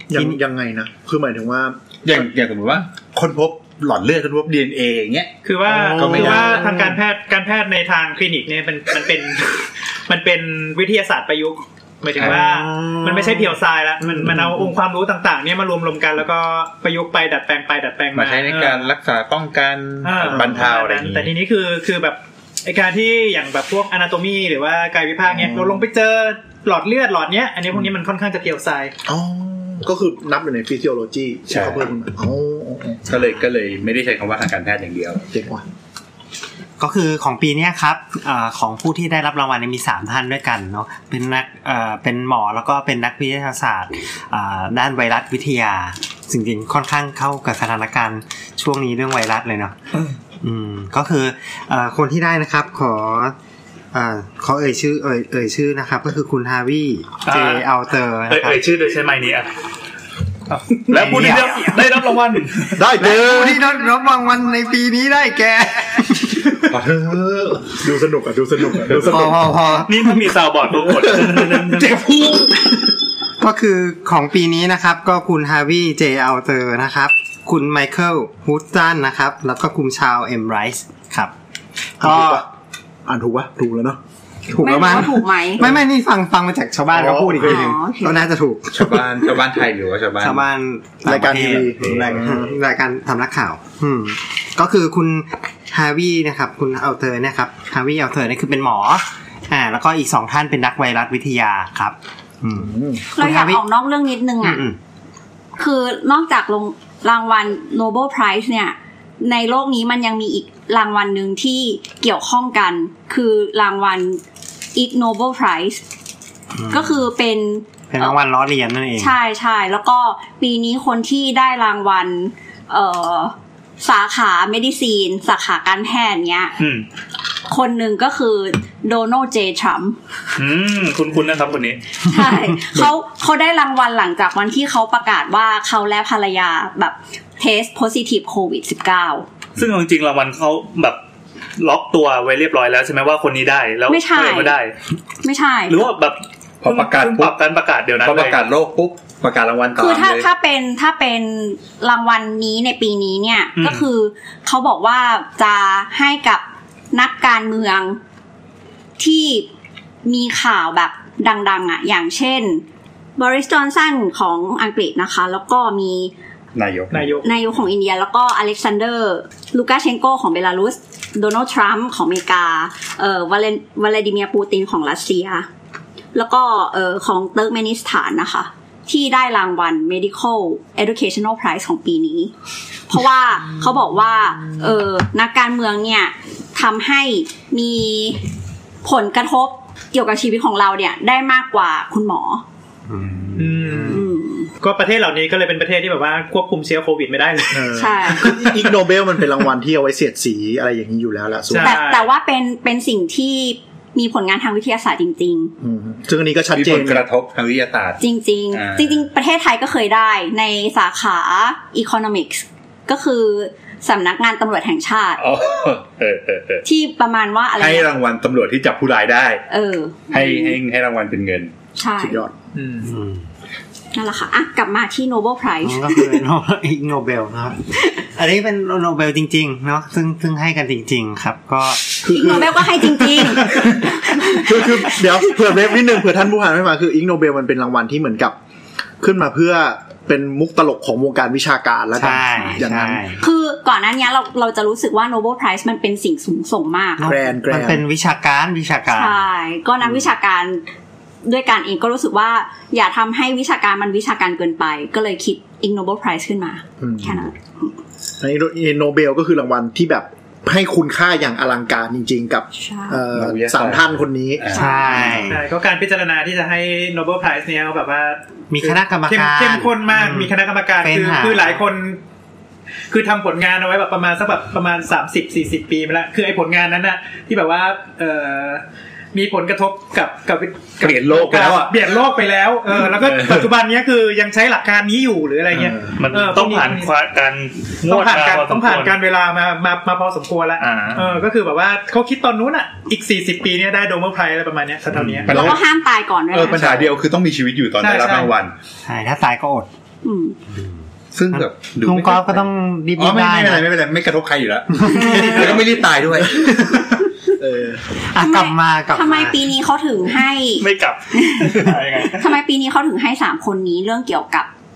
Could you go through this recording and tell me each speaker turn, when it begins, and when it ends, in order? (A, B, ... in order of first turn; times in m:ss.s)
0:00.1-0:01.8 A
0:00.1-0:00.4 B
0:02.0-0:06.9 C
0:05.4-0:18.9 D
0:05.7-0:06.8 A
0:12.2-0:13.4 A
0:14.0-0:14.6 A
0:18.1-0:21.3 C
0:20.0-0:28.9 D
0:20.3-0:20.7 A
0:29.1-0:33.1 A
0:31.5-0:31.9 C
0:33.1-0:35.2 C
0:35.3-0:35.6 A
0:36.8-0:49.8 B
0:50.4-0:53.4 B
0:53.9-0:58.6 B
0:57.3-0:57.7 E
0:58.3-0:59.5 E
1:00.5-1:02.8 E
1:00.9-1:01.8 B
1:02.7-1:03.6 A
1:02.9-1:06.5 B
1:06.7-1:07.6 C
1:07.6-1:09.5 A
1:08.9-1:10.4 B
1:09.9-1:12.0 E
1:11.2-1:12.6 A
1:13.4-1:21.3 B
1:22.0-1:22.4 B
1:22.0-1:22.5 A
1:23.1-1:24.0 A
1:24.5-1:29.0 B
1:24.6-1:25.6 F
1:26.9-1:27.8 A
1:27.4-1:28.3 F
1:28.7-1:30.4 C
1:30.2-1:43.6 B
1:31.0-1:32.5 A
1:31.8-1:32.4 C
1:42.5-1:43.0 A
1:43.2-1:44.6 F
1:44.4-1:44.8 B
1:45.6-1:54.2 F
1:54.8-1:55.8 F
1:56.6-1:57.0 B
1:56.7-1:58.2 F
1:57.9-1:59.1 B
1:59.0-2:06.6 F
2:06.6-2:06.8 E
2:07.5-2:10.0 F
2:10.4-2:11.8 E
2:12.0-2:19.3 F
2:19.6-2:21.0 E
2:21.6-2:24.7 E
2:23.9-2:24.6 F
2:25.2-2:25.9 F
2:25.7-2:28.4 E
2:26.6-2:27.3 C
2:28.0-2:30.3 C
2:29.8-2:38.0 F
2:33.6-2:33.8 E
2:39.0-2:39.5 F
2:40.0-2:42.6 F
2:43.2-2:46.1 F
2:46.6-2:47.2 C
2:46.9-2:47.3 D
2:47.2-2:55.5 F
2:56.2-3:02.3 F
3:02.9-3:08.2 F
3:08.8-3:12.4 F
3:12.9-3:14.0 B
3:13.4-3:14.0 D
3:13.9-3:14.5 F
3:14.6-3:18.7 D
3:17.5-3:21.8 A
3:17.7-3:18.4 F
3:21.5-3:22.1 D
3:21.6-3:25.5 F
3:25.6-3:27.0 A
3:26.5-3:29.0 C
3:28.0-3:35.2 F
3:35.2-3:36.6 C
3:36.6-3:37.9 F
3:37.6-3:39.4 C
3:39.5-3:40.6 F
3:40.1-3:41.5 C
3:41.8-3:42.2 F
3:42.0-3:42.3 A
3:42.6-3:42.9 D
3:42.8-3:43.2 B
3:43.9-3:46.3 F
3:45.6-3:52.0 B
3:52.0-3:55.0 F
3:52.0-3:58.4 A
3:59.0-4:03.0 A
4:02.0-4:03.2 B
4:03.2-4:07.1 F
4:07.0-4:09.2 B
4:07.0-4:07.8 A
4:08.9-4:10.6 F
4:11.2-4:17.7 F
4:16.8-4:17.3 A
4:18.2-4:25.1 A
4:22.5-4:23.0 F
4:23.1-4:25.2 C
4:24.5-4:25.2 F
4:24.5-4:25.5 B
4:25.3-4:32.0 D
4:28.5-4:31.6 B
4:32.9-4:46.9 D
4:40.8-4:41.8 C
4:42.9-4:43.5 C
4:46.0-4:49.0 E
4:47.8-4:55.5 D
4:50.6-4:51.1 E
4:55.3-4:55.6 C
4:55.3-4:56.9 F
4:56.3-4:58.5 C
4:57.8-4:58.3 D
4:58.8-4:59.7 B
5:00.0-5:00.4 F
5:01.1-5:06.4 C
5:01.3-5:03.7 B
5:04.7-5:05.5 B
5:06.4-5:06.7 A
5:07.3-5:07.8 A
5:08.1-5:09.4 B
5:08.2-5:14.5 F
5:10.6-5:12.3 E